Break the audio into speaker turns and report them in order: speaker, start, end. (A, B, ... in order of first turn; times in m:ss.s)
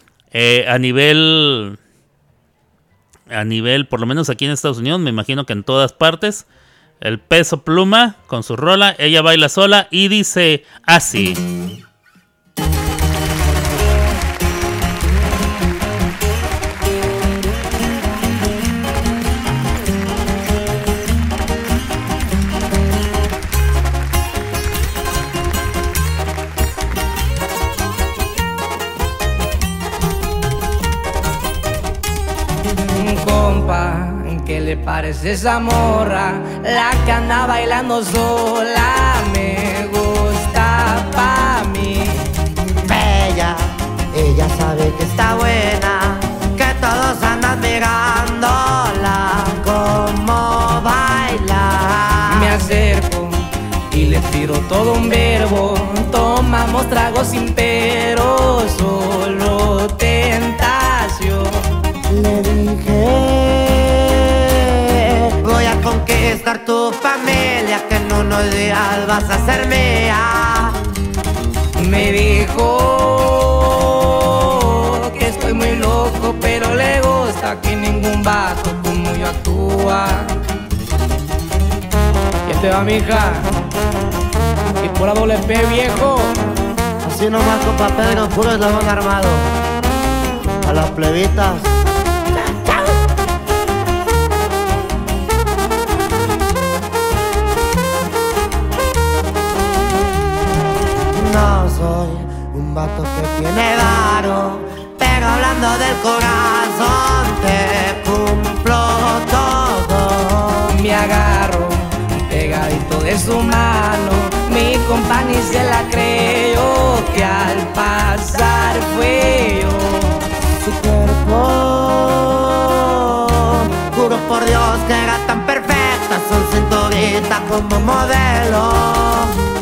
0:00.3-0:01.8 A
0:03.3-0:06.4 A
0:07.0-0:11.4 A
0:33.0-0:42.2 B
0:42.8-0:52.6 C
0:52.3-1:01.7 B
1:02.1-1:10.8 C
1:11.8-1:20.3 B
1:22.4-1:23.5 B
1:24.8-1:26.4 B
1:27.0-1:29.5 C
1:30.6-1:31.7 C
1:32.3-1:33.0 C
1:41.1-1:50.7 C
1:50.7-2:00.2 B
2:00.6-2:09.3 C